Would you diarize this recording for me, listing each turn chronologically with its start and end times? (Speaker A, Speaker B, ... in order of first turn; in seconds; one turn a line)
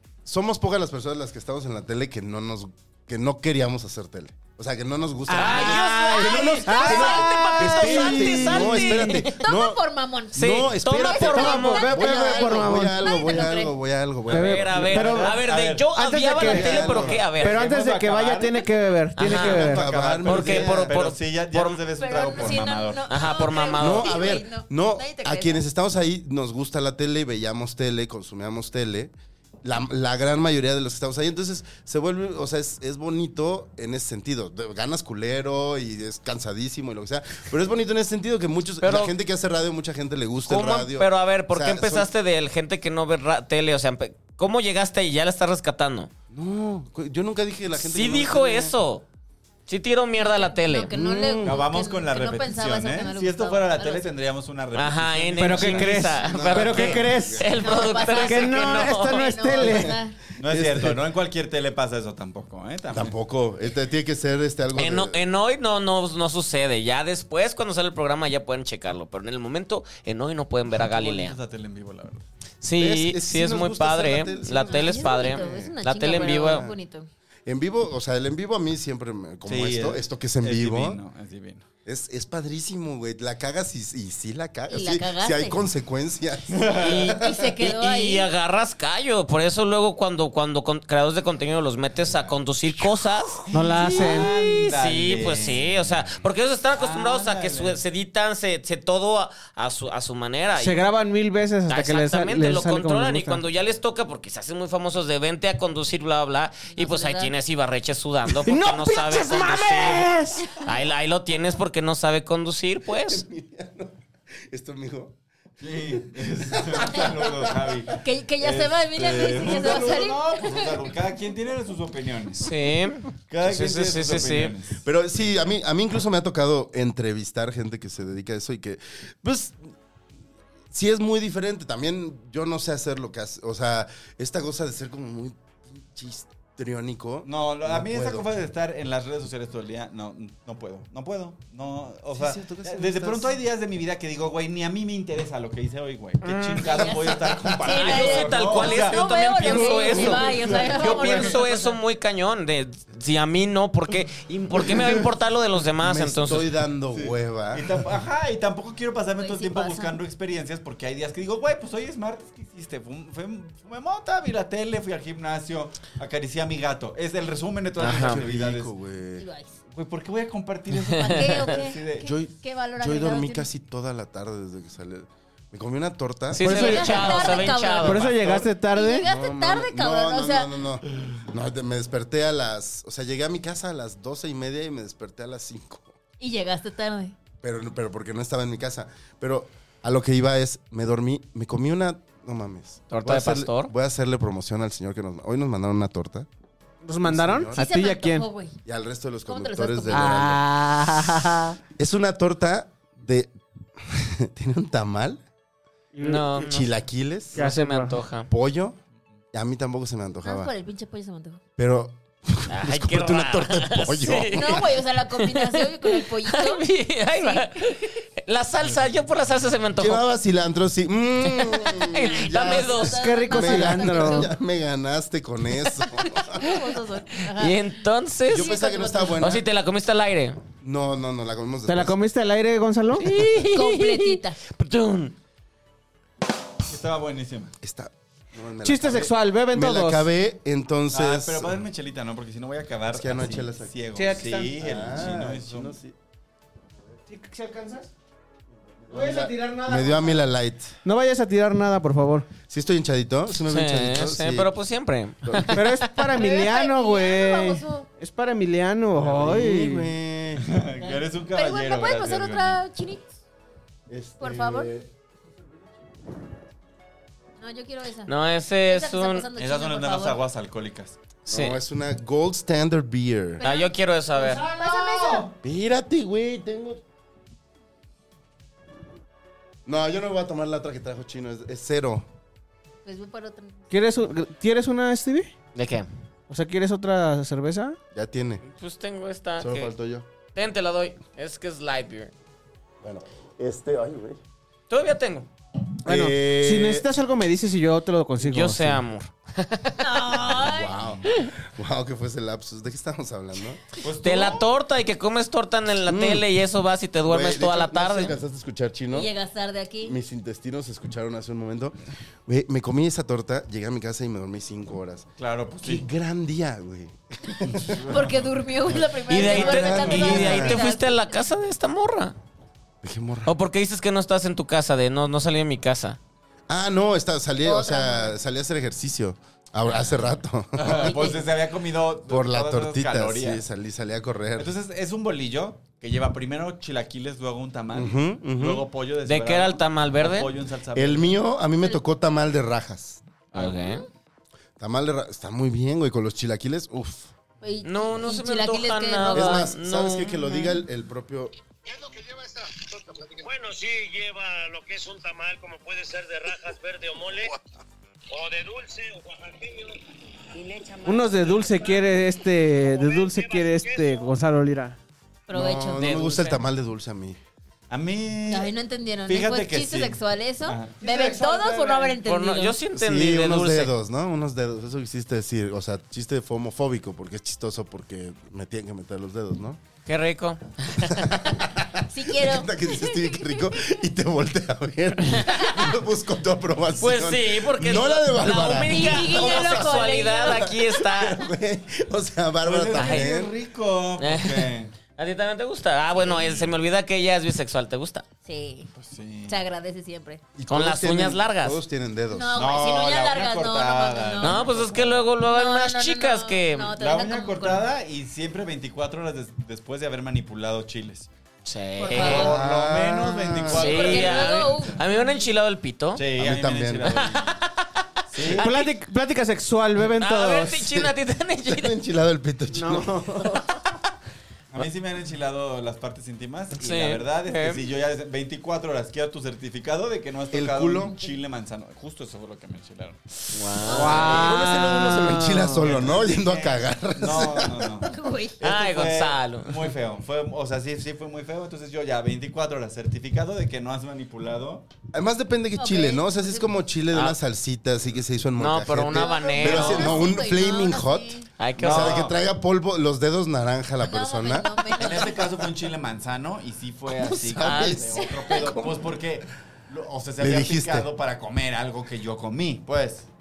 Speaker A: 0.2-9.8
Speaker B: 5.3-9.0
Speaker C: 5.3-9.3
Speaker D: 5.7-7.2
Speaker D: 9.2-13.7
Speaker A: 10.3-14.6
Speaker C: 10.3-12.1
Speaker B: 11.3-13.1
Speaker C: 14.3-17.6
Speaker E: 14.3-18.6
Speaker B: 14.3-15.3
Speaker B: 15.9-16.8
Speaker A: 16.6-17.2
Speaker B: 17.4-19.8
Speaker C: 19.2-21.8
Speaker E: 19.2-23.3
Speaker A: 19.4-21.0
Speaker D: 21.9-25.6
Speaker C: 23.1-24.3
Speaker A: 23.8-42.1
Speaker C: 38.8-39.1
Speaker C: 40.5-46.1
Speaker A: 46.3-48.8
Speaker C: 47.8-49.0
Speaker C: 49.7-50.9
Speaker D: 50.2-54.1
Speaker A: 50.9-51.7
Speaker E: 51.4-56.0
Speaker C: 54.7-59.4
Speaker B: 55.4-57.5
Speaker A: 56.1-58.0
Speaker D: 57.6-60.2
Speaker B: 58.1-60.0
Speaker A: 59.6-61.0
Speaker E: 60.4-63.1
Speaker A: 62.9-65.2
Speaker C: 64.7-71.4
Speaker E: 70.7-72.2
Speaker C: 72.6-76.7
Speaker A: 72.8-76.8
Speaker D: 74.6-77.1
Speaker A: 77.5-81.0
Speaker E: 79.5-81.7
Speaker A: 81.8-86.7
Speaker D: 84.7-85.6
Speaker E: 86.5-87.1
Speaker C: 86.8-93.5
Speaker D: 87.1-88.3
Speaker E: 93.4-96.1
Speaker B: 93.5-94.3
Speaker C: 94.0-100.8
Speaker E: 96.7-97.8
Speaker B: 100.5-103.4
Speaker C: 101.7-113.2
Speaker D: 106.7-107.3
Speaker B: 108.3-110.5
Speaker A: 112.9-115.1
Speaker E: 115.6-122.5
Speaker A: 116.4-117.8
Speaker D: 118.0-120.8
Speaker C: 122.4-124.5
Speaker E: 123.3-124.8
Speaker A: 124.8-129.7
Speaker A: 130.7-138.3
Speaker E: 137.2-149.0
Speaker A: 142.1-143.3
Speaker C: 146.2-147.0
Speaker D: 146.7-151.8
Speaker C: 147.6-156.5
Speaker A: 149.5-150.8
Speaker E: 150.0-150.5
Speaker A: 155.8-157.8
Speaker E: 156.9-168.7
Speaker D: 159.2-160.0
Speaker A: 167.8-169.3
Speaker C: 167.8-168.2
Speaker D: 169.2-169.6
Speaker E: 169.7-172.1
Speaker C: 170.9-171.4
Speaker D: 170.9-173.4
Speaker A: 172.0-177.2
Speaker B: 176.3-177.1
Speaker C: 176.3-178.1
Speaker D: 176.4-180.5
Speaker B: 177.8-179.1
Speaker E: 178.0-178.4
Speaker A: 179.0-185.9
Speaker D: 186.2-187.2
Speaker A: 187.4-196.3
Speaker C: 192.9-193.7
Speaker B: 196.8-198.2
Speaker A: 197.0-197.7
Speaker D: 197.5-198.6
Speaker A: 198.6-200.4
Speaker D: 199.2-200.3
Speaker B: 199.9-201.6
Speaker A: 201.8-205.2
Speaker B: 205.9-206.3
Speaker C: 206.0-206.7
Speaker A: 206.1-207.5
Speaker C: 207.3-208.3
Speaker B: 207.3-207.9
Speaker A: 208.3-208.8
Speaker A: 209.3-210.5
Speaker D: 210.2-211.4
Speaker A: 211.6-214.8
Speaker C: 212.5-220.0
Speaker D: 214.3-216.6
Speaker D: 217.2-217.9
Speaker A: 219.8-226.6
Speaker C: 221.4-223.0
Speaker D: 221.9-224.3
Speaker B: 222.9-224.3
Speaker D: 225.9-227.6
Speaker C: 227.3-228.6
Speaker A: 228.3-229.4
Speaker D: 228.3-229.2
Speaker C: 229.2-230.4
Speaker A: 230.6-232.0
Speaker B: 231.7-233.1
Speaker C: 233.0-235.2
Speaker D: 233.4-234.4
Speaker E: 236.7-237.5
Speaker A: 237.6-241.6
Speaker B: 238.6-240.1
Speaker E: 240.9-245.8
Speaker A: 242.9-243.7
Speaker B: 243.9-244.6
Speaker A: 244.6-245.9
Speaker B: 247.1-247.9
Speaker A: 248.8-250.8
Speaker B: 248.9-250.2
Speaker B: 250.8-252.3
Speaker A: 252.5-254.5
Speaker C: 253.4-255.7
Speaker A: 255.2-255.6
Speaker B: 255.5-259.9
Speaker D: 256.1-257.9
Speaker A: 259.0-260.5
Speaker E: 260.4-262.6
Speaker D: 260.8-263.1
Speaker A: 263.9-264.9
Speaker D: 264.2-264.7
Speaker D: 267.4-268.1
Speaker C: 268.1-269.3
Speaker D: 268.6-270.2
Speaker E: 269.4-271.0
Speaker C: 271.2-271.6
Speaker A: 271.3-273.4
Speaker D: 273.4-275.3
Speaker C: 273.4-274.4
Speaker B: 274.2-275.3
Speaker A: 275.4-276.8
Speaker A: 279.6-282.1
Speaker D: 282.8-283.6
Speaker B: 283.7-285.3
Speaker C: 285.5-285.9
Speaker B: 286.3-287.8
Speaker A: 287.9-288.4
Speaker C: 288.5-289.7
Speaker A: 289.4-290.1
Speaker C: 290.3-292.1
Speaker A: 292.8-294.2
Speaker C: 294.7-295.3
Speaker A: 295.8-296.9
Speaker B: 295.9-298.8
Speaker C: 298.2-300.4
Speaker D: 299.8-301.3
Speaker A: 300.2-303.6
Speaker E: 303.8-304.5
Speaker C: 304.0-308.1
Speaker A: 305.9-306.2
Speaker A: 307.0-309.1
Speaker D: 308.9-309.9
Speaker A: 309.8-315.1
Speaker E: 315.2-315.8
Speaker A: 315.6-317.8
Speaker E: 317.6-318.1
Speaker D: 317.8-320.9
Speaker C: 319.1-322.1
Speaker A: 319.1-320.6
Speaker A: 322.8-323.3
Speaker C: 323.2-326.0
Speaker A: 326.5-331.1
Speaker D: 327.4-328.1
Speaker E: 330.6-333.4
Speaker D: 330.8-331.2
Speaker A: 332.1-334.5
Speaker E: 334.4-341.2
Speaker A: 337.7-338.6
Speaker C: 339.1-340.3
Speaker A: 340.7-343.0
Speaker C: 343.3-343.8
Speaker A: 344.6-347.1
Speaker D: 347.4-349.5
Speaker C: 347.6-350.2
Speaker A: 349.1-351.3
Speaker D: 350.2-350.6
Speaker F: 351.7-357.4
Speaker F: 358.1-359.8
Speaker B: 360.8-364.8
Speaker F: 362.6-364.1
Speaker D: 365.3-365.8
Speaker A: 365.3-367.2
Speaker C: 365.8-366.4
Speaker E: 367.7-368.5
Speaker D: 368.2-372.6
Speaker E: 369.1-371.0
Speaker B: 370.8-372.0
Speaker C: 372.0-373.7
Speaker A: 372.7-379.6
Speaker C: 379.9-381.2
Speaker A: 380.8-393.3
Speaker D: 381.9-383.4
Speaker D: 385.3-385.7
Speaker C: 386.8-391.2
Speaker D: 388.4-390.6
Speaker E: 392.4-394.7
Speaker C: 392.7-393.1
Speaker C: 394.0-398.0
Speaker E: 396.0-396.5
Speaker D: 398.2-398.7
Speaker E: 398.8-399.4
Speaker D: 399.2-400.2
Speaker A: 400.4-402.5
Speaker C: 400.5-401.6
Speaker D: 402.1-407.7
Speaker E: 402.3-405.1
Speaker C: 404.2-406.8
Speaker E: 406.8-411.1
Speaker C: 411.4-412.4
Speaker D: 411.8-412.4
Speaker E: 411.9-414.8
Speaker A: 412.0-413.8
Speaker C: 413.4-416.0
Speaker D: 413.5-415.3
Speaker E: 415.9-417.4
Speaker A: 416.2-417.1
Speaker C: 416.9-417.5
Speaker C: 418.1-418.7
Speaker E: 418.1-418.5
Speaker B: 418.3-420.8
Speaker C: 419.8-421.7
Speaker A: 421.5-423.4
Speaker B: 422.5-423.4
Speaker E: 424.5-433.2
Speaker C: 426.6-427.6
Speaker A: 430.3-430.9
Speaker C: 433.3-435.6
Speaker D: 433.7-434.1
Speaker B: 433.7-434.7
Speaker E: 433.8-434.3
Speaker A: 433.9-437.7
Speaker E: 435.5-444.7
Speaker D: 437.8-438.4
Speaker C: 438.4-439.7
Speaker A: 444.9-454.6
Speaker D: 445.6-446.6
Speaker C: 446.9-447.2
Speaker C: 448.4-450.0
Speaker D: 448.9-451.3
Speaker C: 451.4-452.1
Speaker E: 451.6-452.2
Speaker D: 453.8-455.5
Speaker E: 454.7-463.1
Speaker A: 456.9-459.0
Speaker C: 457.4-457.8
Speaker D: 457.9-458.5
Speaker A: 460.2-460.9